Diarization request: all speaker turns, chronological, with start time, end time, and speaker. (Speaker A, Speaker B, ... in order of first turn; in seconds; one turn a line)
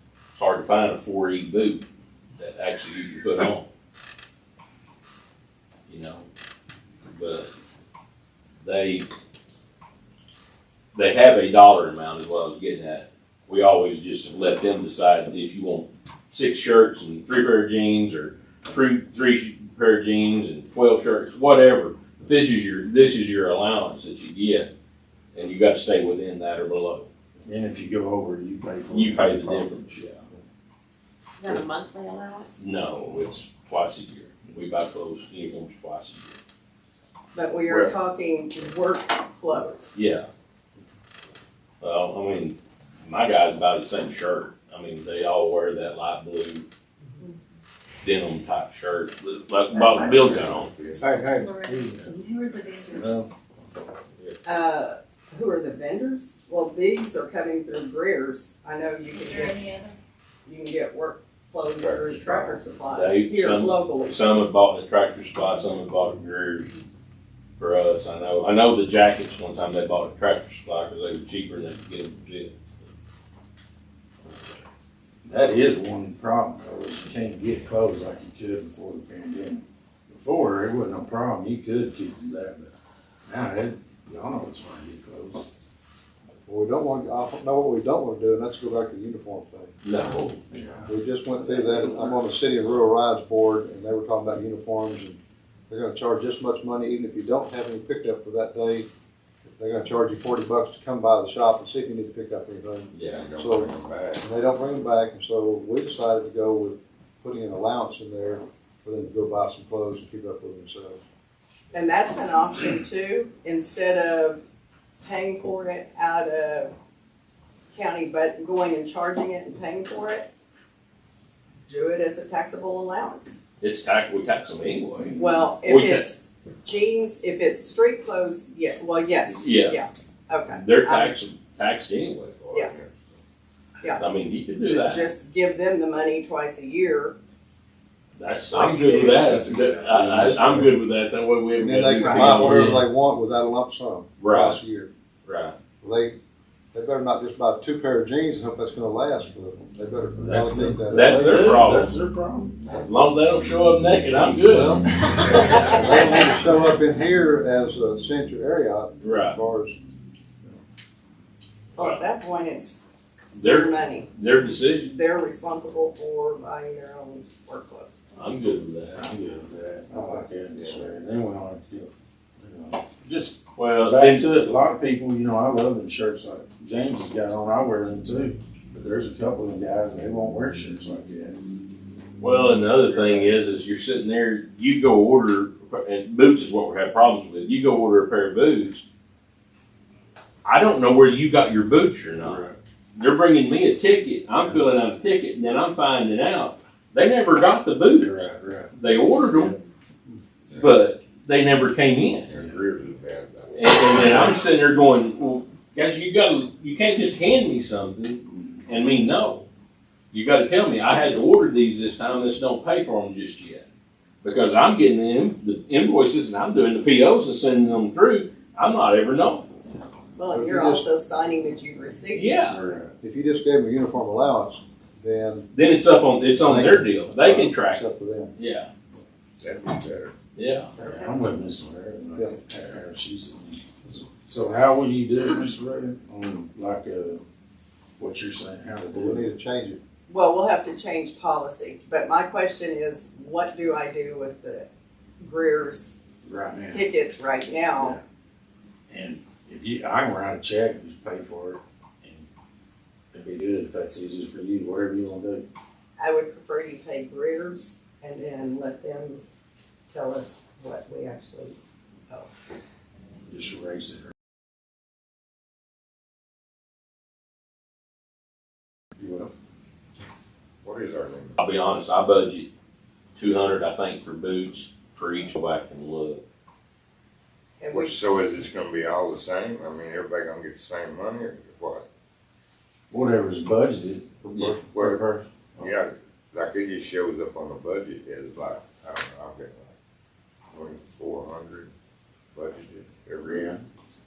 Speaker A: 0.3-1.8
Speaker A: 2.4-3.7
Speaker A: 5.9-6.3
Speaker A: 7.1-7.5
Speaker A: 8.6-9.1
Speaker A: 10.9-24.7
Speaker A: 25.3-27.1
Speaker B: 27.4-29.7
Speaker A: 28.9-30.2
Speaker C: 31.4-32.6
Speaker A: 32.6-36.4
Speaker C: 37.3-39.9
Speaker A: 37.7-37.9
Speaker A: 39.9-40.2
Speaker A: 41.8-46.6
Speaker A: 48.0-50.7
Speaker C: 49.7-50.1
Speaker D: 49.9-51.1
Speaker B: 51.0-52.1
Speaker E: 51.3-53.2
Speaker B: 52.9-53.3
Speaker C: 54.4-59.7
Speaker E: 59.1-60.0
Speaker C: 60.4-64.2
Speaker A: 61.8-66.7
Speaker A: 67.6-72.5
Speaker B: 75.2-82.7
Speaker B: 83.2-85.5
Speaker F: 86.5-89.7
Speaker A: 89.8-90.4
Speaker B: 90.5-92.1
Speaker F: 90.8-98.9
Speaker F: 99.5-103.7
Speaker A: 102.9-103.3
Speaker D: 103.1-104.3
Speaker F: 104.2-111.0
Speaker C: 111.7-114.4
Speaker C: 115.0-116.7
Speaker C: 117.7-120.3
Speaker C: 121.7-123.3
Speaker A: 123.6-126.0
Speaker C: 125.1-131.1
Speaker A: 129.4-129.8
Speaker A: 130.5-132.3
Speaker D: 132.2-133.2
Speaker A: 134.0-135.1
Speaker C: 134.7-137.1
Speaker A: 138.2-142.7
Speaker C: 138.5-139.2
Speaker B: 139.1-140.8
Speaker F: 141.6-144.9
Speaker C: 141.9-142.5
Speaker B: 142.4-142.8
Speaker A: 144.2-144.6
Speaker A: 145.2-145.5
Speaker F: 145.8-146.2
Speaker F: 146.7-151.3
Speaker B: 150.2-152.6
Speaker A: 150.9-151.9
Speaker A: 152.7-156.2
Speaker F: 154.4-159.8
Speaker C: 155.3-156.1
Speaker A: 159.0-159.3
Speaker C: 161.8-162.8
Speaker A: 163.3-164.9
Speaker C: 163.4-164.1
Speaker C: 164.8-168.0
Speaker A: 168.1-169.0
Speaker B: 168.9-181.4
Speaker D: 170.5-170.8
Speaker A: 173.6-174.2
Speaker A: 182.2-188.8
Speaker B: 182.7-183.6
Speaker A: 190.4-192.4
Speaker B: 192.2-192.6
Speaker A: 192.9-199.5
Speaker B: 198.0-198.7
Speaker B: 199.3-199.6
Speaker D: 200.5-200.7
Speaker A: 200.5-202.3
Speaker D: 202.3-204.2
Speaker B: 202.3-202.6
Speaker A: 203.5-209.4
Speaker A: 210.1-213.7
Speaker A: 214.2-219.5
Speaker C: 220.2-222.3
Speaker F: 220.3-220.8
Speaker A: 222.1-222.6
Speaker B: 222.5-222.9
Speaker F: 223.0-225.5
Speaker A: 225.5-227.8
Speaker F: 226.3-228.3
Speaker A: 228.3-228.7
Speaker D: 229.4-230.1
Speaker A: 230.3-230.7
Speaker B: 230.8-237.2
Speaker C: 230.8-231.1
Speaker B: 238.0-239.3
Speaker F: 238.9-239.8
Speaker C: 240.1-244.7
Speaker C: 245.2-246.0
Speaker B: 246.2-246.9
Speaker C: 246.7-248.0
Speaker B: 247.8-248.0
Speaker B: 248.9-252.2
Speaker B: 253.1-255.4
Speaker C: 256.0-259.2
Speaker C: 259.9-261.6
Speaker B: 263.3-264.1
Speaker B: 269.0-269.3
Speaker D: 270.6-271.4
Speaker A: 271.4-272.5
Speaker A: 273.1-276.2
Speaker C: 277.6-278.0
Speaker D: 277.7-281.9
Speaker B: 282.9-285.7
Speaker D: 284.3-285.0
Speaker D: 285.6-289.7
Speaker D: 290.5-291.7
Speaker D: 292.3-293.5
Speaker B: 293.2-293.6